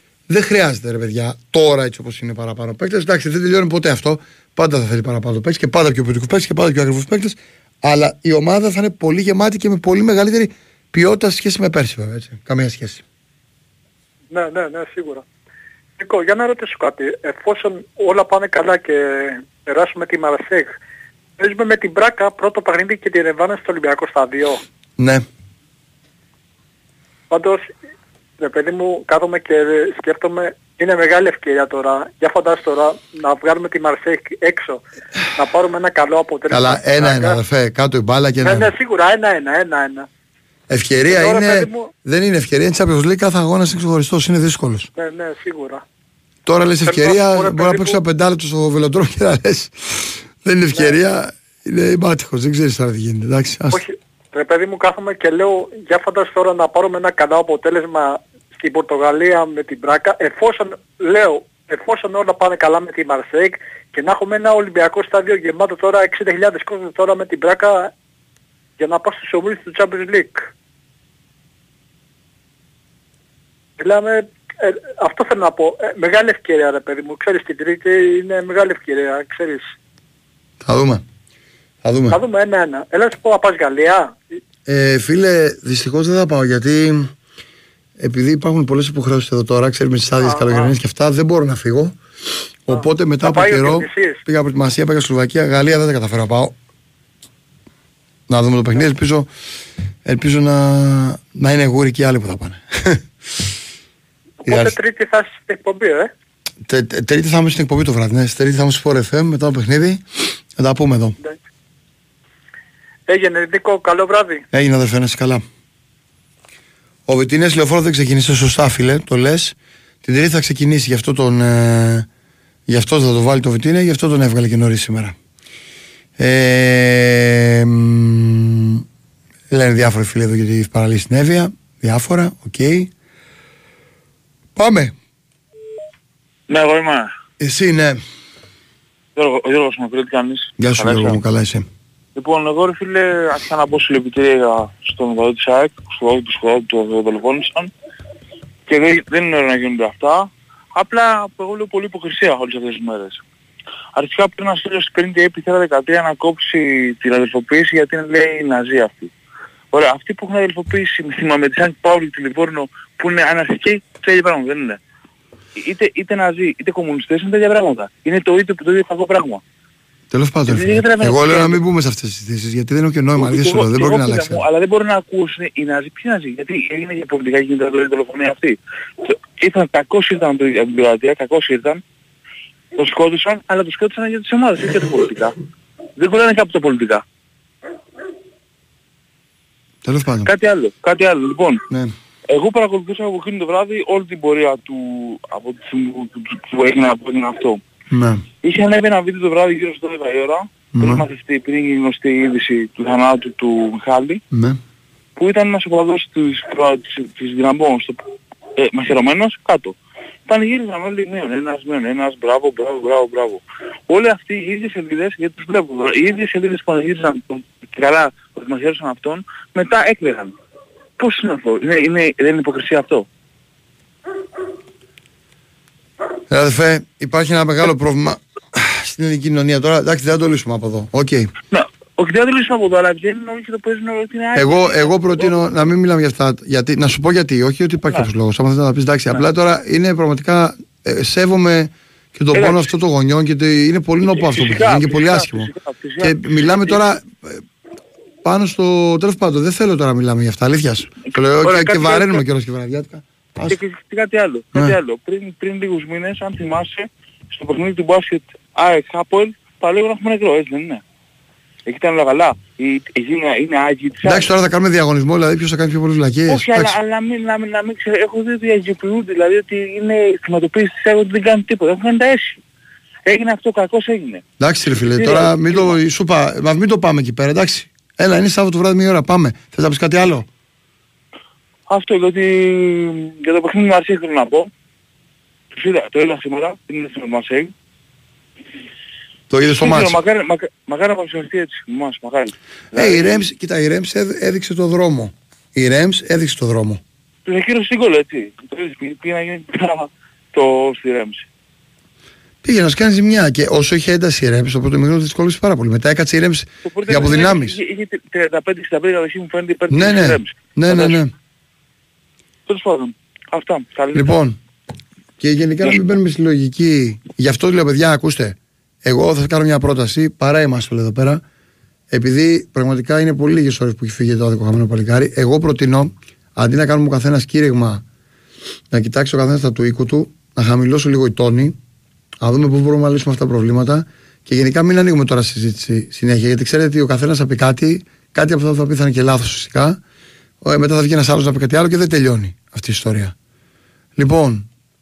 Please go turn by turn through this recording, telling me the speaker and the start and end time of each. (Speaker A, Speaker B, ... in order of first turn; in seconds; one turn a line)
Speaker A: 0.3-13.0
Speaker B: 14.3-15.2
Speaker B: 16.0-20.7
Speaker B: 21.4-24.6
Speaker A: 25.0-25.2
Speaker B: 27.3-27.7
Speaker B: 28.4-34.8
Speaker B: 35.4-37.4
Speaker A: 36.5-38.7
Speaker B: 38.4-40.1
Speaker A: 40.7-44.9
Speaker B: 41.1-41.9
Speaker B: 45.0-45.8
Speaker A: 46.5-53.8
Speaker B: 46.9-48.0
Speaker B: 53.7-67.9
Speaker B: 68.8-70.5
Speaker B: 73.8-79.6
Speaker A: 80.6-81.0
Speaker A: 81.8-82.2
Speaker B: 82.1-84.2
Speaker A: 84.7-87.1
Speaker A: 88.0-92.0
Speaker B: 90.2-90.8
Speaker A: 92.7-96.5
Speaker B: 92.7-94.2
Speaker A: 98.3-99.3
Speaker A: 100.0-103.4
Speaker B: 104.5-106.1
Speaker A: 104.5-104.8
Speaker A: 106.7-111.2
Speaker B: 113.1-114.5
Speaker A: 114.5-115.4
Speaker A: 117.1-122.1
Speaker A: 122.7-125.2
Speaker A: 126.2-128.8
Speaker A: 129.5-132.9
Speaker A: 134.6-134.9
Speaker C: 136.5-137.1
Speaker A: 137.4-138.0
Speaker C: 139.2-141.2
Speaker A: 140.6-141.7
Speaker C: 142.2-147.7
Speaker C: 148.7-153.2
Speaker C: 153.9-159.1
Speaker C: 159.7-164.8
Speaker C: 165.6-169.4
Speaker A: 170.1-174.4
Speaker C: 170.5-171.6
Speaker C: 173.2-181.8
Speaker C: 182.8-185.4
Speaker C: 186.0-187.0
Speaker A: 189.8-190.3
Speaker C: 190.2-191.6
Speaker C: 192.3-197.6
Speaker A: 197.9-198.2
Speaker C: 198.4-204.2
Speaker A: 200.8-201.0
Speaker A: 204.3-204.6
Speaker C: 205.2-208.0
Speaker C: 208.6-209.8
Speaker C: 210.3-220.3
Speaker C: 221.0-223.1
Speaker A: 226.3-231.3
Speaker C: 231.5-235.7
Speaker A: 234.3-247.4
Speaker C: 237.8-238.1
Speaker C: 242.3-242.6
Speaker C: 244.1-246.8
Speaker A: 248.2-253.6
Speaker C: 251.4-252.2
Speaker C: 253.5-260.8
Speaker C: 261.7-264.3
Speaker A: 264.0-266.8
Speaker C: 266.3-272.4
Speaker C: 273.1-274.2
Speaker A: 274.4-280.3
Speaker C: 274.8-275.8
Speaker C: 281.7-284.5
Speaker C: 285.5-287.5
Speaker A: 289.3-290.0
Speaker C: 289.5-293.2
Speaker A: 292.8-296.8
Speaker C: 297.3-301.2
Speaker A: 302.4-307.6
Speaker C: 306.7-311.1
Speaker A: 309.7-311.1
Speaker C: 312.5-314.2
Speaker A: 313.9-314.4
Speaker A: 315.2-321.2
Speaker A: 321.9-327.8
Speaker A: 328.7-331.6
Speaker A: 332.2-339.8
Speaker A: 340.4-343.1
Speaker A: 344.0-344.5